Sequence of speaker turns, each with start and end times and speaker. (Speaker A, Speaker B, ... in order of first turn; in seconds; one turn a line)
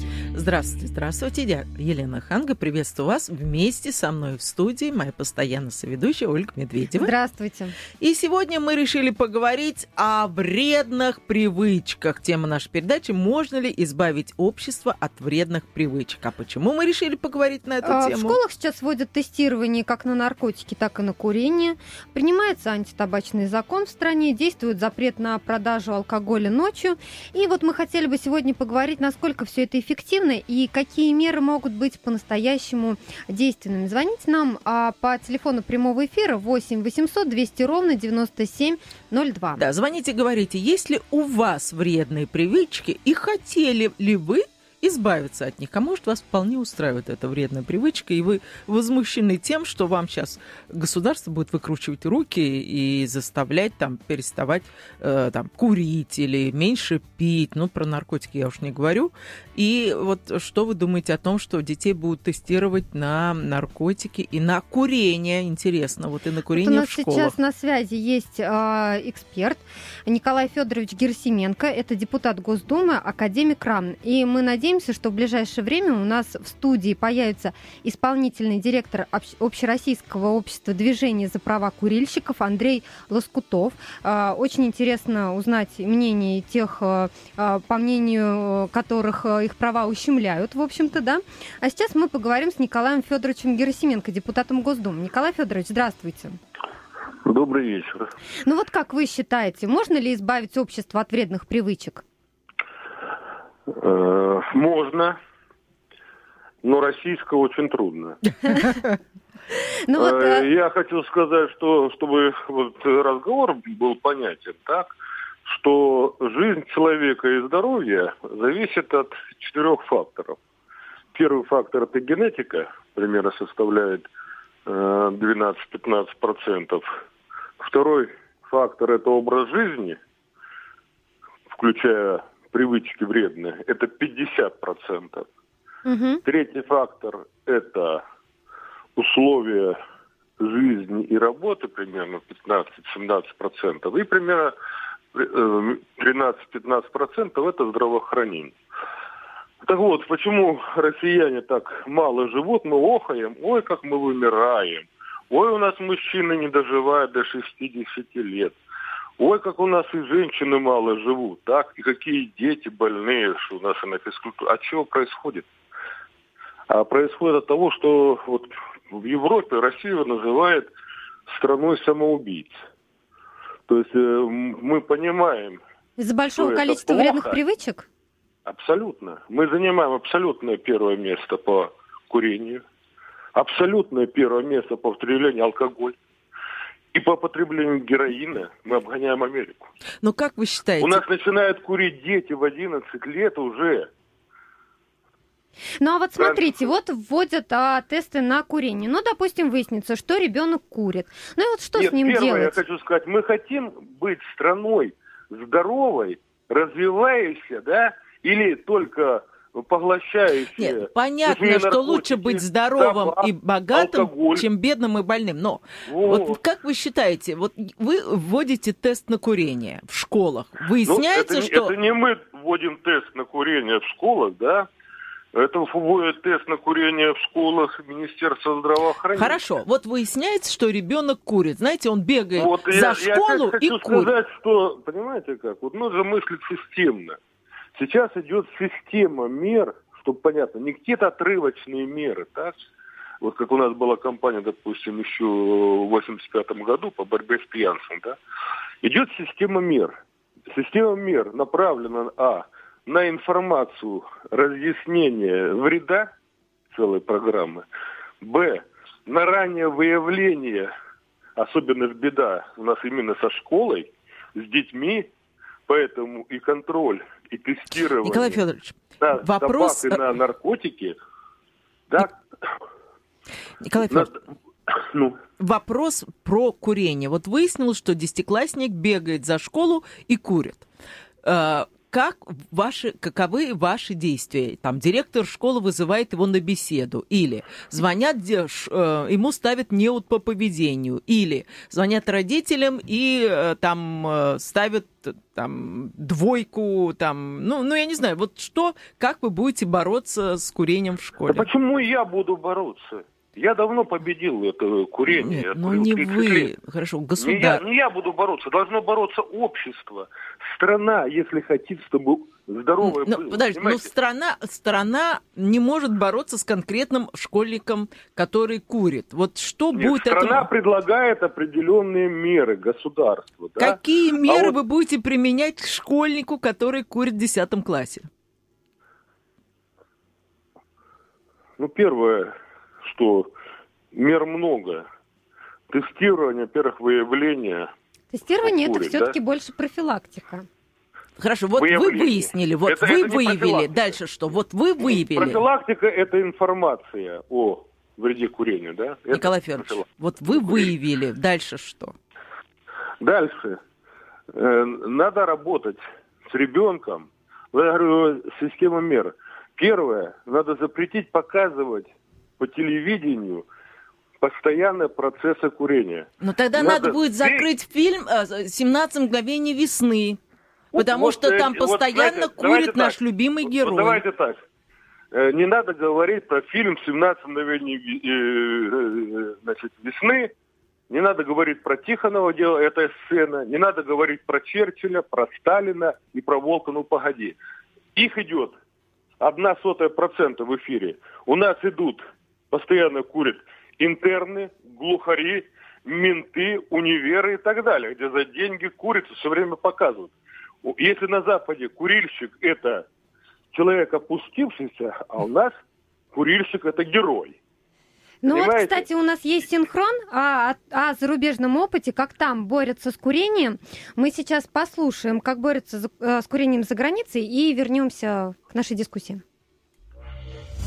Speaker A: 0.3-7.1
Speaker B: 6.9-7.7
Speaker A: 8.0-18.4
Speaker B: 17.8-39.6
Speaker A: 39.6-67.3
Speaker B: 66.5-96.4
Speaker C: 97.2-98.0
Speaker B: 98.5-102.0
Speaker C: 103.7-105.2
Speaker C: 106.6-108.2
Speaker B: 109.9-110.5
Speaker C: 110.0-114.9
Speaker C: 115.5-120.4
Speaker C: 121.1-124.1
Speaker C: 124.7-126.8
Speaker C: 127.6-130.0
Speaker C: 131.5-135.3
Speaker B: 135.8-136.2
Speaker C: 136.2-138.0
Speaker C: 138.9-139.8
Speaker C: 140.4-144.5
Speaker C: 145.1-148.5
Speaker C: 149.6-158.5
Speaker C: 159.2-165.4
Speaker C: 166.7-170.7
Speaker C: 171.3-172.5
Speaker C: 173.7-175.6
Speaker B: 176.0-177.8
Speaker C: 176.4-177.4
Speaker C: 178.4-182.6
Speaker C: 183.3-185.9
Speaker C: 186.9-189.6
Speaker A: 190.0-191.0
Speaker C: 190.8-193.9
Speaker B: 195.8-202.6
Speaker C: 196.2-196.7
Speaker C: 201.7-214.4
Speaker A: 210.6-221.7
Speaker C: 215.8-216.4
Speaker C: 220.8-224.7
Speaker C: 225.3-229.4
Speaker A: 229.1-234.1
Speaker C: 232.4-237.2
Speaker C: 237.7-242.6
Speaker C: 243.2-248.2
Speaker C: 248.8-249.9
Speaker C: 250.5-256.1
Speaker C: 256.7-257.6
Speaker C: 258.2-260.7
Speaker C: 261.4-265.1
Speaker C: 265.7-268.4
Speaker A: 268.0-270.0
Speaker C: 269.0-270.9
Speaker C: 271.9-272.2
Speaker A: 273.6-274.1
Speaker C: 273.9-275.2
Speaker A: 275.4-280.6
Speaker A: 281.2-301.5
Speaker C: 301.3-306.5
Speaker A: 305.1-307.6
Speaker C: 307.2-313.9
Speaker A: 312.8-320.5
Speaker C: 319.7-324.6
Speaker A: 323.6-328.1
Speaker C: 331.6-332.3
Speaker C: 332.8-333.3
Speaker C: 333.9-334.8
Speaker C: 335.7-337.7
Speaker B: 338.1-340.4
Speaker C: 338.4-339.1
Speaker A: 341.2-345.4
Speaker C: 341.6-343.8
Speaker C: 344.9-349.8
Speaker A: 349.1-351.9
Speaker C: 350.4-350.7
Speaker C: 353.0-353.6
Speaker C: 354.3-363.4
Speaker C: 364.2-367.5
Speaker A: 366.2-370.2
Speaker C: 370.7-373.0
Speaker A: 370.7-374.0
Speaker C: 373.5-374.4
Speaker C: 375.1-380.3
Speaker C: 380.9-387.4
Speaker C: 387.9-388.5
Speaker C: 389.2-400.1
Speaker C: 400.6-402.8
Speaker C: 403.5-405.5
Speaker C: 406.1-407.4
Speaker B: 408.2-419.2
Speaker C: 408.2-408.9